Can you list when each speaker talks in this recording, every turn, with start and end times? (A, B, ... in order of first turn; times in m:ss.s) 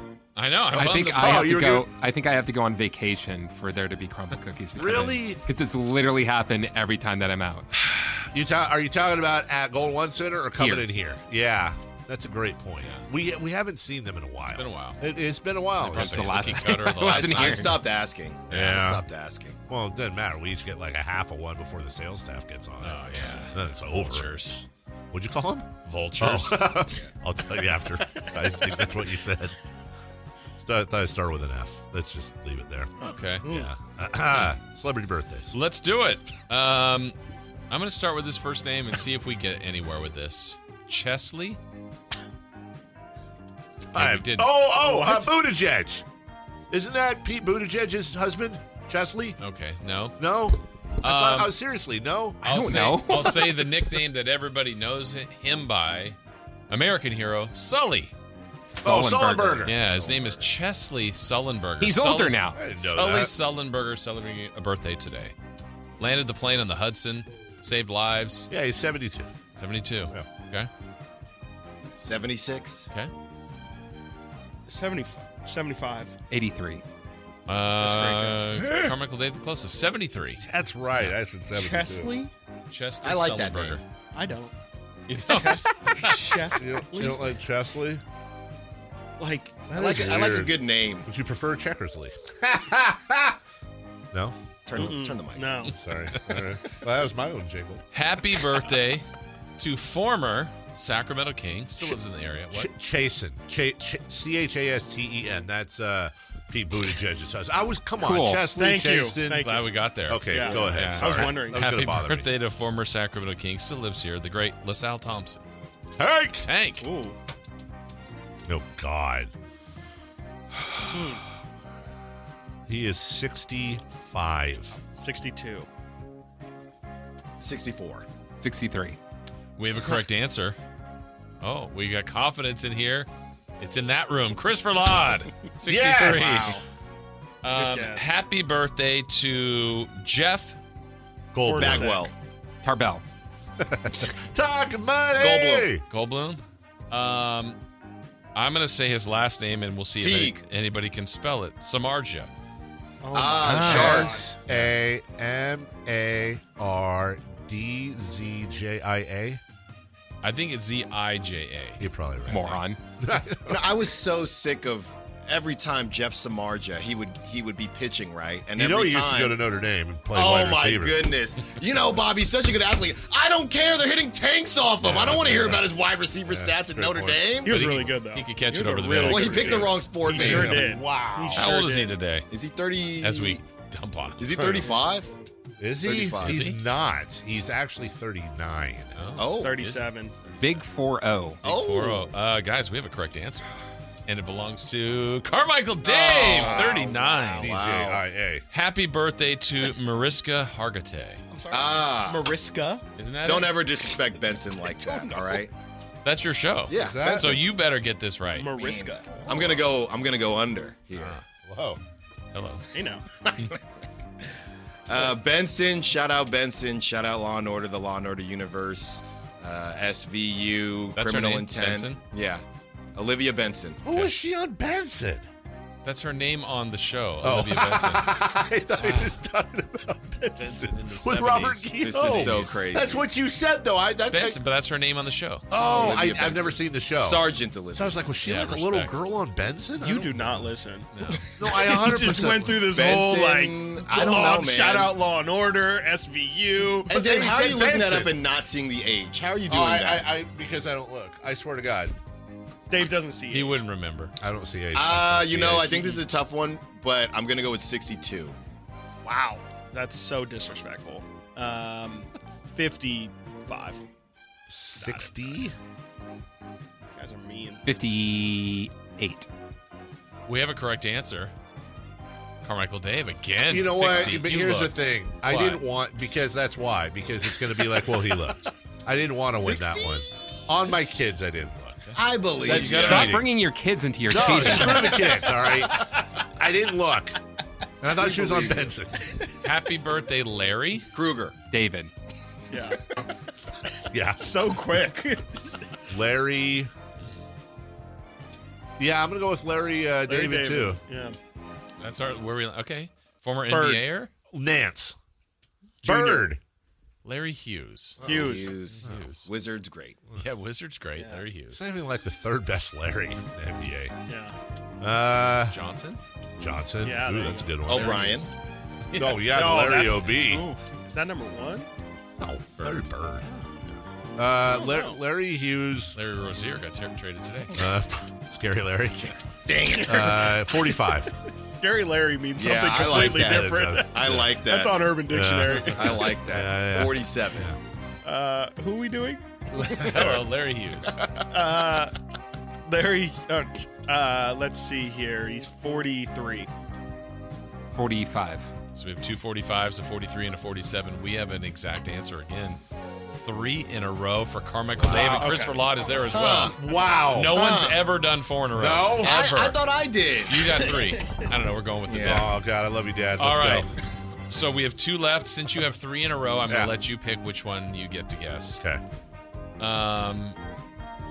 0:00.3-0:01.5 A
0:00.7-0:07.7 B
0:00.8-0:01.9 C
0:04.8-0:05.4 C
0:08.2-0:16.6 C
0:10.6-0:10.8 B
0:14.6-0:15.0 A
0:15.8-0:17.8 A
0:15.8-0:17.8 B
0:17.0-0:19.6 D
0:18.5-0:18.9 A
0:18.5-0:19.0 C
0:19.7-0:24.6 C
0:22.8-0:24.6 A
0:23.2-0:23.5 D
0:25.1-0:29.6 C
0:25.8-0:26.8 A
0:30.6-0:35.5 C
0:33.0-0:33.5 A
0:35.5-0:37.2 A
0:37.7-0:41.6 A
0:43.9-0:46.0 C
0:43.9-0:44.9 A
0:46.7-0:49.4 C
0:49.4-0:50.2 A
0:50.2-0:52.4 C
0:51.0-0:51.5 A
0:52.4-0:56.2 A
0:52.4-0:53.8 B
0:56.7-0:58.1 A
0:58.6-0:59.7 B
0:58.8-0:59.8 C
0:59.6-1:05.3 A
0:59.8-1:00.5 D
1:01.8-1:02.6 B
1:02.5-1:03.3 C
1:06.0-1:08.5 A
1:08.5-1:09.3 C
1:09.6-1:10.7 A
1:12.0-1:12.9 D
1:14.7-1:16.2 E
1:16.3-1:16.8 B
1:17.5-1:20.4 A
1:17.8-1:18.5 E
1:18.5-1:19.0 C
1:20.4-1:22.2 C
1:21.5-1:22.3 E
1:22.7-1:23.8 A
1:23.0-1:23.8 D
1:24.1-1:24.5 E
1:25.1-1:26.5 A
1:25.3-1:27.3 E
1:26.1-1:28.0 C
1:29.2-1:29.7 E
1:29.7-1:33.4 C
1:29.7-1:31.1 D
1:34.1-1:34.9 C
1:34.6-1:35.6 D
1:34.8-1:35.7 E
1:35.6-1:37.8 C
1:36.1-1:36.4 A
1:37.9-1:39.0 A
1:39.6-1:42.7 A
1:42.5-1:52.3 C
1:48.0-1:48.4 B
1:48.5-1:49.7 E
1:49.4-1:55.4 A
1:50.3-1:51.7 E
1:56.0-1:56.4 C
1:56.4-1:56.9 A
1:56.8-1:57.2 E
1:58.4-1:59.3 C
2:00.5-2:01.2 C
2:00.9-2:01.2 E
2:02.7-2:04.8 C
2:04.8-2:05.7 E
2:07.4-2:08.0 D
2:08.4-2:09.0 B
2:09.6-2:10.6 A
2:11.4-2:13.1 A
2:13.6-2:16.6 A
2:15.6-2:16.6 C
2:16.1-2:16.6 E
2:16.1-2:16.5 D
2:17.4-2:20.6 A
2:17.5-2:18.1 E
2:21.3-2:22.0 C
2:21.4-2:22.1 E
2:21.6-2:22.1 D
2:22.6-2:23.0 B
2:23.6-2:25.8 C
2:25.1-2:25.7 D
2:25.9-2:27.6 A
2:28.3-2:32.3 A
2:30.0-2:30.4 D
2:33.0-2:34.3 E
2:33.1-2:34.1 D
2:33.4-2:39.4 C
2:40.2-2:42.6 A
2:41.8-2:43.9 C
2:42.3-2:42.8 B
2:43.5-2:49.4 D
2:48.6-2:51.1 C
2:50.1-2:57.6 D
2:54.8-2:55.7 C
2:56.2-2:57.8 C
2:57.4-3:02.0 E
2:57.5-3:00.5 A
2:59.0-3:00.6 D
2:59.8-3:01.5 C
3:01.3-3:02.3 A
3:02.3-3:03.4 D
3:03.0-3:04.3 A
3:04.2-3:05.1 D
3:04.4-3:04.7 C
3:05.6-3:08.9 C
3:05.8-3:06.5 D
3:06.2-3:06.6 A
3:08.9-3:10.6 A
3:09.2-3:09.6 D
3:09.4-3:10.1 E
3:10.4-3:11.4 B
3:11.4-3:12.1 D
3:11.4-3:13.5 A
3:14.0-3:17.5 A
3:15.8-3:16.8 D
3:16.1-3:17.5 E
3:17.4-3:18.0 D
3:17.4-3:18.4 C
3:18.5-3:21.2 A
3:21.3-3:22.8 E
3:21.5-3:22.3 D
3:23.0-3:23.6 A
3:23.2-3:25.5 D
3:24.7-3:25.4 E
3:26.0-3:28.5 A
3:26.7-3:27.4 D
3:26.7-3:27.4 C
3:28.4-3:29.2 E
3:28.5-3:31.2 D
3:29.2-3:29.6 C
3:30.9-3:31.2 A
3:31.4-3:31.8 C
3:32.3-3:32.7 A
3:32.7-3:33.0 E
3:34.9-3:42.4 D
3:41.0-3:42.0 A
3:43.0-3:43.8 D
3:43.8-3:45.2 C
3:45.8-3:48.1 A
3:47.2-3:54.4 C
3:48.8-3:49.1 A
3:50.3-3:52.6 A
3:51.8-3:53.1 D
3:54.1-3:55.4 A
3:55.5-4:00.5 C
3:55.5-3:58.0 D
3:58.2-3:59.0 A
3:59.8-4:06.9 E
4:00.9-4:01.2 A
4:01.4-4:02.8 C
4:02.7-4:04.9 D
4:06.9-4:10.0 D
4:06.9-4:08.2 C
4:09.4-4:11.9 C
4:12.7-4:13.6 E
4:13.3-4:14.1 A
4:14.2-4:16.0 C
4:14.7-4:18.4 D
4:19.0-4:23.8 E
4:24.5-4:25.6 C
4:24.8-4:25.4 E
4:26.9-4:27.6 E
4:27.6-4:29.3 B
4:30.3-4:31.3 A
4:32.4-4:35.6 A
4:33.5-4:41.9 C
4:39.3-4:40.0 D
4:41.9-4:43.1 A
4:41.9-4:42.9 D
4:42.4-4:43.3 C
4:42.6-4:44.9 B
4:44.1-4:47.2 C
4:47.8-4:49.1 C
4:48.0-4:48.7 D
4:49.4-4:50.9 A
4:50.9-4:51.4 D
4:51.5-4:51.9 B
4:52.5-4:52.8 E
4:53.9-4:54.8 C
4:54.2-4:55.8 E
4:55.9-4:56.7 C
4:58.8-5:00.8 C
5:00.1-5:01.2 E
5:01.8-5:04.1 A
5:03.5-5:03.8 E
5:04.3-5:05.0 C
5:05.8-5:06.3 E
5:05.8-5:06.4 C
5:07.0-5:08.0 A
5:08.0-5:09.0 C
5:08.0-5:10.0 D
5:08.1-5:08.7 E
5:08.8-5:09.3 A
5:10.2-5:11.6 A
5:11.0-5:11.2 E
5:11.5-5:14.0 C
5:14.1-5:14.4 E
5:14.8-5:15.6 C
5:15.5-5:16.0 A
5:16.4-5:18.3 C
5:16.8-5:17.7 E
5:17.7-5:18.3 D
5:17.7-5:18.3 A
5:18.9-5:19.6 A
5:18.9-5:20.5 C
5:19.2-5:21.7 E
5:22.2-5:23.3 C
5:22.6-5:22.8 A
5:24.2-5:26.0 C
5:24.5-5:25.0 E
5:25.9-5:27.5 A
5:27.5-5:31.2 C
5:28.8-5:30.2 D
5:29.5-5:33.9 E
5:32.3-5:34.8 D
5:32.8-5:37.6 C
5:34.4-5:35.9 E
5:35.4-5:36.0 A
5:35.7-5:37.4 D
5:38.0-5:39.3 E
5:39.5-5:40.2 C
5:39.7-5:41.0 A
5:41.0-5:41.2 D
5:41.3-5:42.0 E
5:42.6-5:46.5 E
5:47.7-5:48.5 B
5:48.7-5:52.6 A
5:53.1-5:59.6 A
5:54.8-5:55.4 D
5:54.9-5:55.5 E
5:56.1-5:56.6 D
5:56.3-5:57.4 C
5:57.3-5:57.8 D
5:58.6-5:59.3 C
5:59.0-6:00.7 D
6:00.2-6:02.3 A
6:01.9-6:02.2 D
6:02.0-6:03.7 C
6:03.2-6:03.7 A
6:04.3-6:08.6 A
6:09.6-6:10.4 A